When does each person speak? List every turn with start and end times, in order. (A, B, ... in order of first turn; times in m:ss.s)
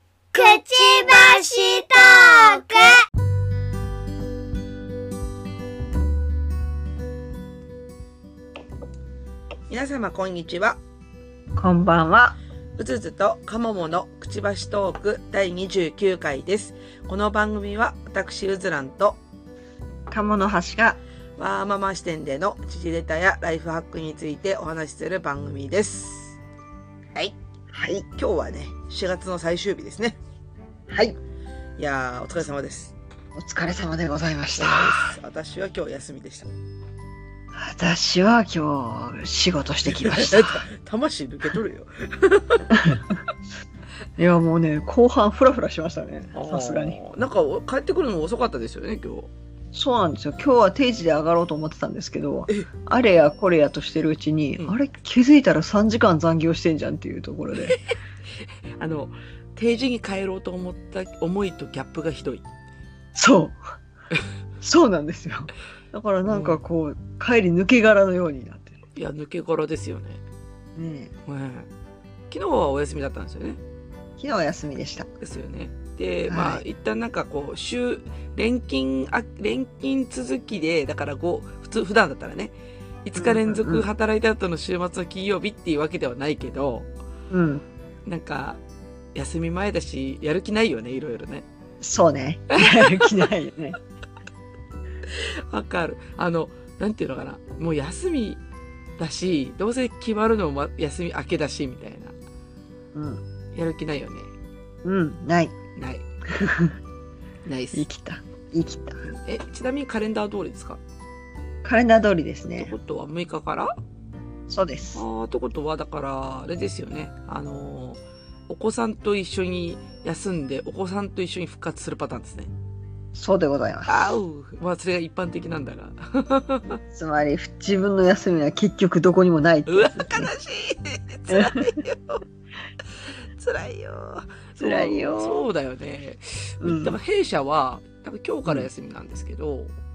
0:00.3-0:03.0 A
0:09.7-0:10.8 B
0:11.6-0:12.4 C
0:12.8-0:19.2 B
0:20.1-0:21.0 C
0:21.4-0:26.4 B
0:27.7-0:28.0 C
0:28.2-0:30.2 B
0:30.9-0:31.2 C
0:31.8-0:32.9 B
0:33.3-0:35.1 C
0:34.5-0:36.6 B
0:37.5-0:40.6 C
0:39.8-0:42.8 B
0:42.7-0:43.0 C
0:44.2-0:47.0 C
0:46.3-0:49.3 B
0:49.7-0:57.8 C
0:58.4-1:02.4 B
1:03.1-1:03.6 C
1:04.6-1:08.7 C
1:06.3-1:06.6 B
1:08.9-1:10.2 B
1:10.8-1:11.1 C
1:11.3-1:11.7 B
1:12.3-1:13.6 B
1:14.2-1:15.1 C
1:15.2-1:22.5 B
1:16.3-1:16.6 C
1:23.0-1:26.9 B
1:23.2-1:23.8 C
1:27.3-1:27.6 C
1:28.0-1:28.6 B
1:29.1-1:31.4 B
1:31.8-1:33.8 C
1:32.5-1:33.3 B
1:35.1-1:38.4 B
1:39.0-1:42.1 B
1:42.9-1:43.2 C
1:43.5-1:44.3 B
1:44.8-1:45.5 C
1:45.8-1:46.0 B
1:46.3-1:46.7 C
1:47.4-1:47.9 B
1:47.7-1:49.0 C
1:49.0-1:50.8 B
1:51.6-1:52.7 C
1:52.6-1:53.7 B
1:54.5-1:55.0 C
1:54.9-2:02.5 B
2:03.1-2:04.1 C
2:03.8-2:06.8 B
2:06.9-2:10.3 C
2:09.7-2:12.2 B
2:13.0-2:19.7 B
2:14.6-2:15.4 C
2:16.6-2:17.0 C